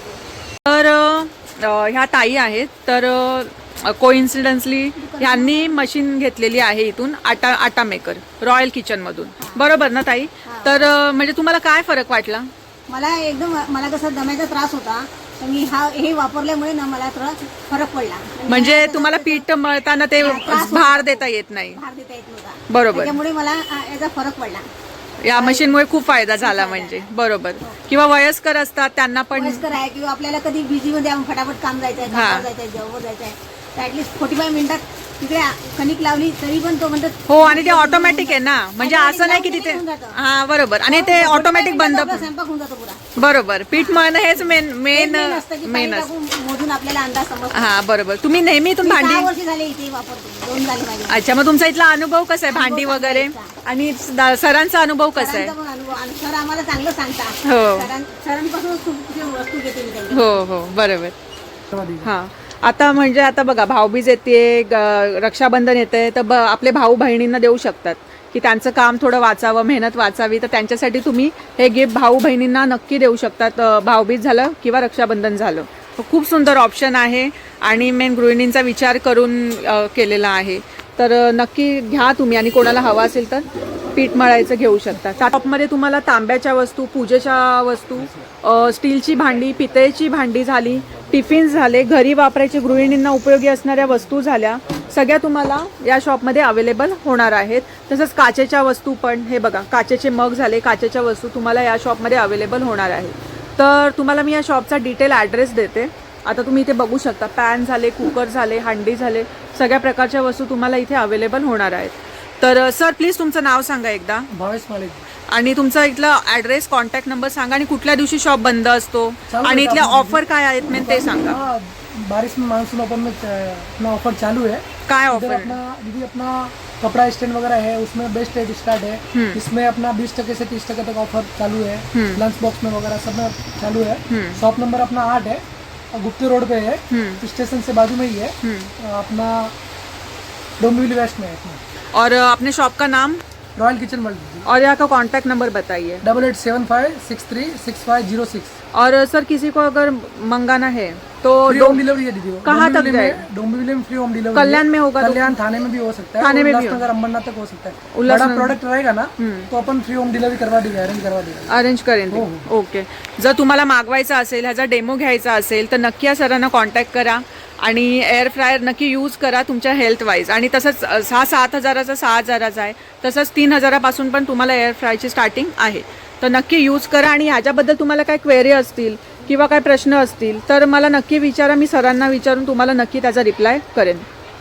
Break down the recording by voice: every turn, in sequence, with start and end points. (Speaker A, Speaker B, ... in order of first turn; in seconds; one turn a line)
Speaker A: 0.7-12.5
Speaker B: 5.0-5.8
Speaker B: 9.4-9.7
Speaker B: 10.5-10.9
Speaker B: 12.9-19.5
Speaker A: 18.5-21.8
Speaker B: 20.2-24.7
Speaker A: 22.7-23.2
Speaker A: 25.2-29.6
Speaker B: 25.3-25.8
Speaker B: 26.4-27.1
Speaker B: 29.3-40.2
Speaker A: 32.1-32.5
Speaker A: 37.3-42.3
Speaker B: 40.9-43.0
Speaker A: 43.2-46.1
Speaker B: 43.7-47.8
Speaker A: 47.5-49.3
Speaker B: 48.8-51.2
Speaker A: 51.1-55.5
Speaker B: 52.5-53.5
Speaker B: 55.2-60.4
Speaker A: 57.4-57.9
Speaker A: 60.1-61.1
Speaker C: 61.7-62.1
Speaker A: 62.0-114.3
Speaker C: 114.3-115.0
Speaker A: 115.3-121.4
Speaker C: 119.3-139.5
Speaker A: 124.9-125.6
Speaker A: 129.1-129.4
Speaker A: 131.9-132.2
Speaker A: 134.1-134.4
Speaker A: 136.9-137.2
Speaker A: 138.4-138.7
Speaker C: 140.6-141.6
Speaker A: 141.9-143.2
Speaker C: 143.6-144.5
Speaker A: 144.4-146.0
Speaker C: 146.0-148.6
Speaker A: 148.7-151.8
Speaker C: 151.5-161.6
Speaker A: 152.4-153.3
Speaker A: 154.3-155.4
Speaker A: 156.2-156.9
Speaker A: 157.9-158.6
Speaker A: 159.2-159.5
Speaker A: 161.5-184.1
Speaker C: 162.1-162.5